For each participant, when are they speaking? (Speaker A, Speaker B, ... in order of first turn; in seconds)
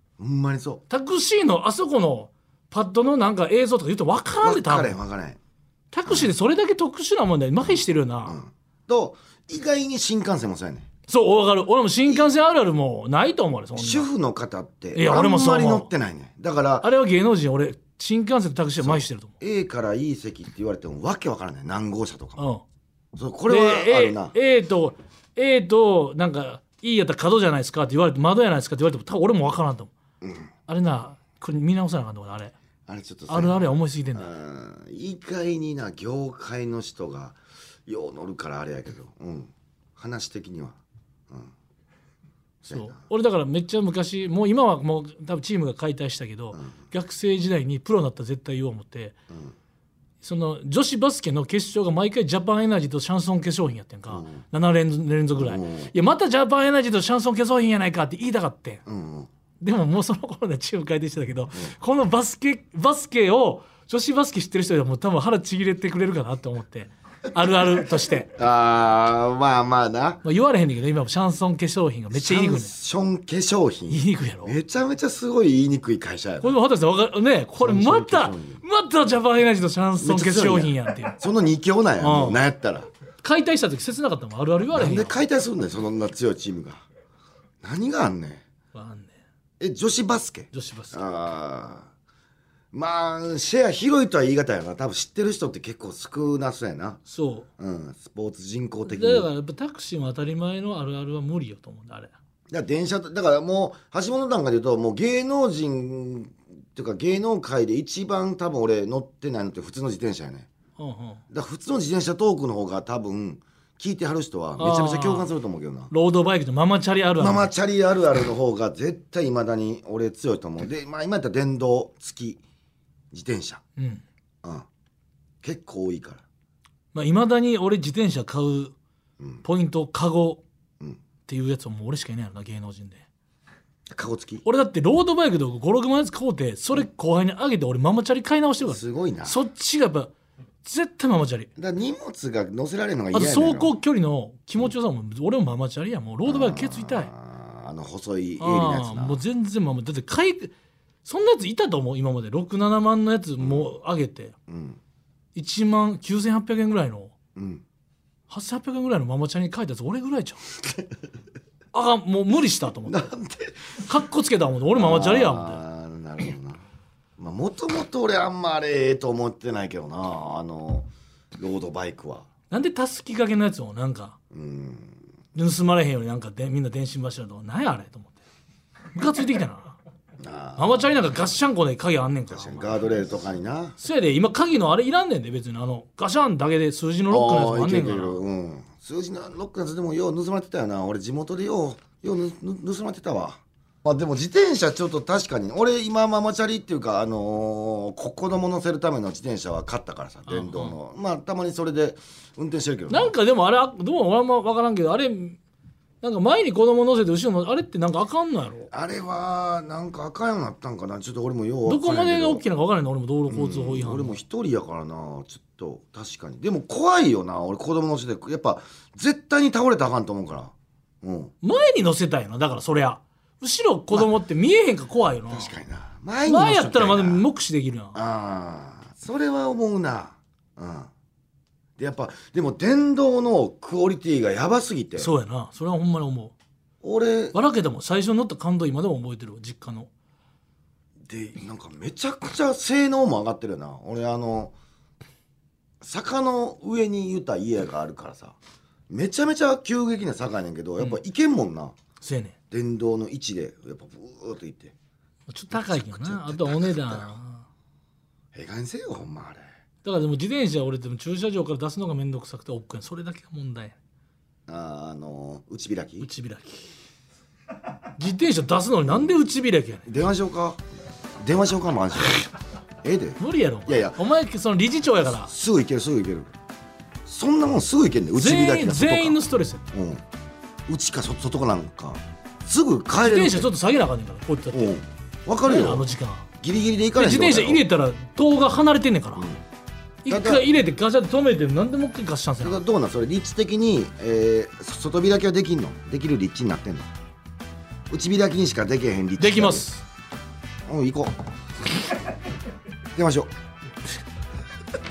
Speaker A: 0.2-0.8, 4.4-5.4, 6.0-6.3, 8.2-10.9, 13.7-16.9, 18.8-22.4, 23.1-24.3, 30.2-30.5, 32.9-40.8, 42.6-43.0, 54.1-54.4, 55.4-55.9, 58.9-59.3, 68.3-70.2, 72.1-76.5, 77.6-78.6, 80.0-82.9, 84.7-86.8, 87.6-88.4, 89.6-91.9, 92.7-97.0, 97.6-99.3, 102.5-110.5, 111.3-115.9, 117.2-122.4, 123.1-123.6, 125.4-126.2, 133.9-134.4, 138.6-139.4, 141.6-143.7, 146.2-149.2, 153.4-153.7, 154.5-154.8, 157.3-157.6, 162.9-163.6, 164.7-166.6, 167.2-172.2, 174.3-175.0, 180.2-181.3, 182.3-183.8, 187.1-203.1, 208.7-212.4, 213.3-221.3, 225.3-227.2, 227.9-230.9, 231.8-235.1, 236.8-237.3, 241.0-244.5, 245.8-248.3, 248.9-251.7, 252.5-254.7, 255.5-257.1, 258.3-259.5, 264.5-266.1, 269.9-270.6, 271.2-272.2, 272.8-274.0, 275.3-276.3, 277.1-279.2, 279.7-280.0, 280.7-283.5, 284.5-285.9, 286.4-287.6, 290.1-290.4, 292.4-296.9, 297.9-299.6, 300.7-301.1, 302.9-303.3
Speaker B: 0.9-5.0, 5.9-8.4, 11.1-14.1, 14.9-15.9, 16.8-19.3, 22.4-22.6, 23.5-29.9, 30.7-32.5, 33.3-34.3, 42.7-49.1, 50.2-58.8, 59.6-68.3, 70.2-72.7, 73.9-74.5, 76.4-81.2, 82.0-82.4, 83.2-85.2, 88.7-89.1, 90.5-91.0, 97.1-97.5, 98.8-102.1, 110.8-111.2, 114.6-115.3, 115.9-117.5, 123.8-124.0, 126.9-128.7, 129.4-130.4, 131.3-133.0, 134.4-140.1, 140.6-141.5, 143.1-147.1, 148.4-150.5, 151.0-154.3, 155.3-157.1, 158.3-160.4, 161.7-163.1, 163.8-165.6, 172.5-174.2, 175.3-178.2, 178.9-179.8, 180.6-182.7, 183.8-188.2, 200.3-200.7, 202.9-205.4, 206.0-208.7, 211.7-214.1, 221.4-225.5, 226.2-227.9, 235.0-236.3, 237.3-239.9, 252.0-252.3, 255.3-257.5, 259.8-263.8, 266.0-266.7, 268.0-269.9, 273.2-275.3, 278.2-279.6, 283.0-284.7, 285.4-286.3, 287.0-289.3, 290.0-292.6, 299.2-299.8